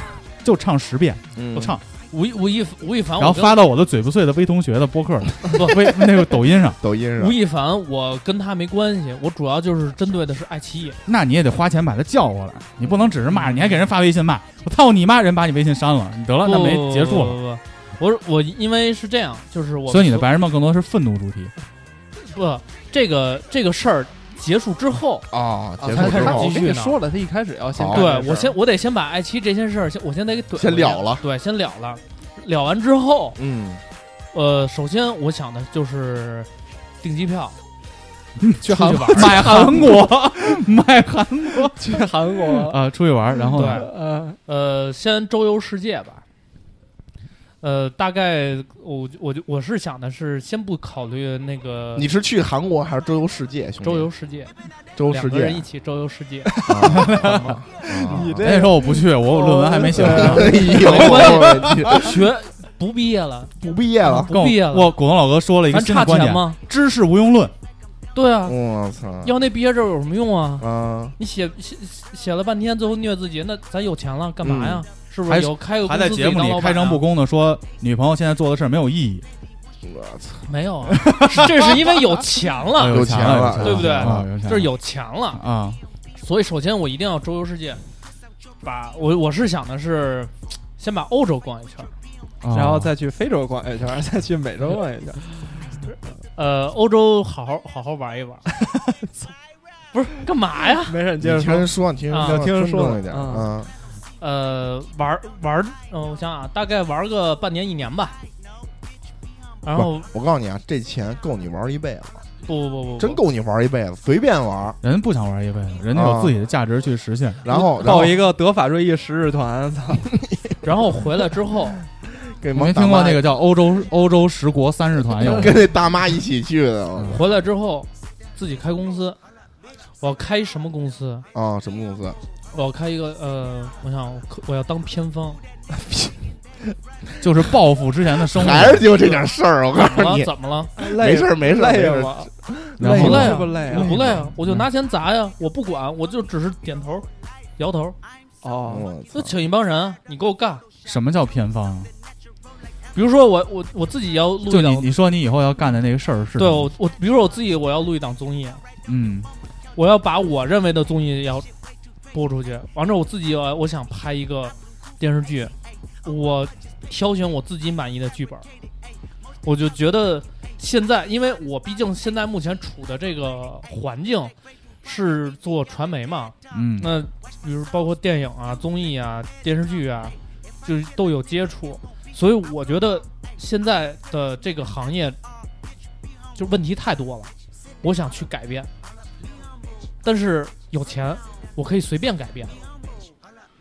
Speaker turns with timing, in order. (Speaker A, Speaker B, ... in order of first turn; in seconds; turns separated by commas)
Speaker A: 0.4-1.8, Speaker B: 1.4-1.7, Speaker C: 1.6-3.6, Speaker A: 3.2-6.8, Speaker C: 5.6-5.9, Speaker B: 6.8-7.4, Speaker C: 7.2-11.0, Speaker A: 11.1-17.4, Speaker C: 13.3-13.8, Speaker C: 16.4-20.3, Speaker A: 19.9-21.5, Speaker C: 22.2-25.3, Speaker B: 25.3-26.6, Speaker D: 25.8-28.6, Speaker C: 25.9-27.0, Speaker B: 27.8-28.1, Speaker C: 27.9-33.4, Speaker B: 30.6-31.2, Speaker B: 33.4-33.8, Speaker C: 34.3-36.5, Speaker C: 37.0-37.6, Speaker A: 38.4-43.9, Speaker C: 38.6-39.5, Speaker D: 38.6-40.6, Speaker D: 41.8-42.8, Speaker D: 43.4-44.4, Speaker C: 43.5-43.9, Speaker C: 44.5-46.2, Speaker C: 47.6-52.1, Speaker B: 52.0-54.1, Speaker C: 53.8-54.5, Speaker B: 55.0-55.7, Speaker C: 55.1-56.5, Speaker D: 56.5-61.0, Speaker B: 56.6-58.4, Speaker A: 56.8-57.6, Speaker A: 58.4-60.7, Speaker B: 60.1-62.1, Speaker C: 60.8-63.5, Speaker B: 63.6-64.3, Speaker C: 64.0-65.0, Speaker A: 64.2-67.5, Speaker C: 65.7-66.6, Speaker C: 68.1-68.6, Speaker B: 68.5-69.4, Speaker C: 69.2-70.7, Speaker B: 70.6-71.2, Speaker C: 71.2-77.0, Speaker B: 74.4-74.8, Speaker A: 75.3-79.2, Speaker B: 79.8-81.7, Speaker C: 80.5-85.4, Speaker A: 81.1-81.5, Speaker A: 82.8-84.8, Speaker B: 82.8-84.3, Speaker A: 85.3-85.8, Speaker C: 86.2-87.8, Speaker C: 88.6-91.9, Speaker A: 92.4-92.9, Speaker D: 92.5-95.3, Speaker C: 95.9-98.5, Speaker D: 98.6-99.1, Speaker C: 99.9-101.0, Speaker D: 100.8-103.6, Speaker B: 101.2-103.7, Speaker C: 102.1-102.5, Speaker C: 104.2-108.2, Speaker C: 109.6-110.1, Speaker B: 109.7-112.2, Speaker C: 112.5-113.2, Speaker B: 113.0-114.8, Speaker A: 114.8-117.4, Speaker B: 115.9-116.4, Speaker B: 117.4-118.2, Speaker D: 117.5-120.1, Speaker C: 120.6-121.8, Speaker B: 122.3-123.2, Speaker A: 122.5-125.6, Speaker B: 125.1-127.2, Speaker C: 127.1-129.2, Speaker C: 130.0-131.3, Speaker B: 131.3-132.2, Speaker C: 132.5-135.4, Speaker A: 137.2-138.9, Speaker B: 138.3-143.2, Speaker C: 139.8-140.7, Speaker D: 140.8-144.1, Speaker A: 142.8-143.8, Speaker C: 143.0-148.0, Speaker D: 148.4-148.9, Speaker B: 148.7-149.4, Speaker C: 149.1-150.7, Speaker A: 150.8-151.9, Speaker C: 152.9-154.9, Speaker A: 154.4-156.7, Speaker C: 156.4-158.6, Speaker A: 158.9-159.3, Speaker C: 159.8-161.5, Speaker C: 162.1-168.5, Speaker C: 169.4-185.2, Speaker A: 176.5-177.0, Speaker C: 186.3-188.7, Speaker C: 190.0-192.6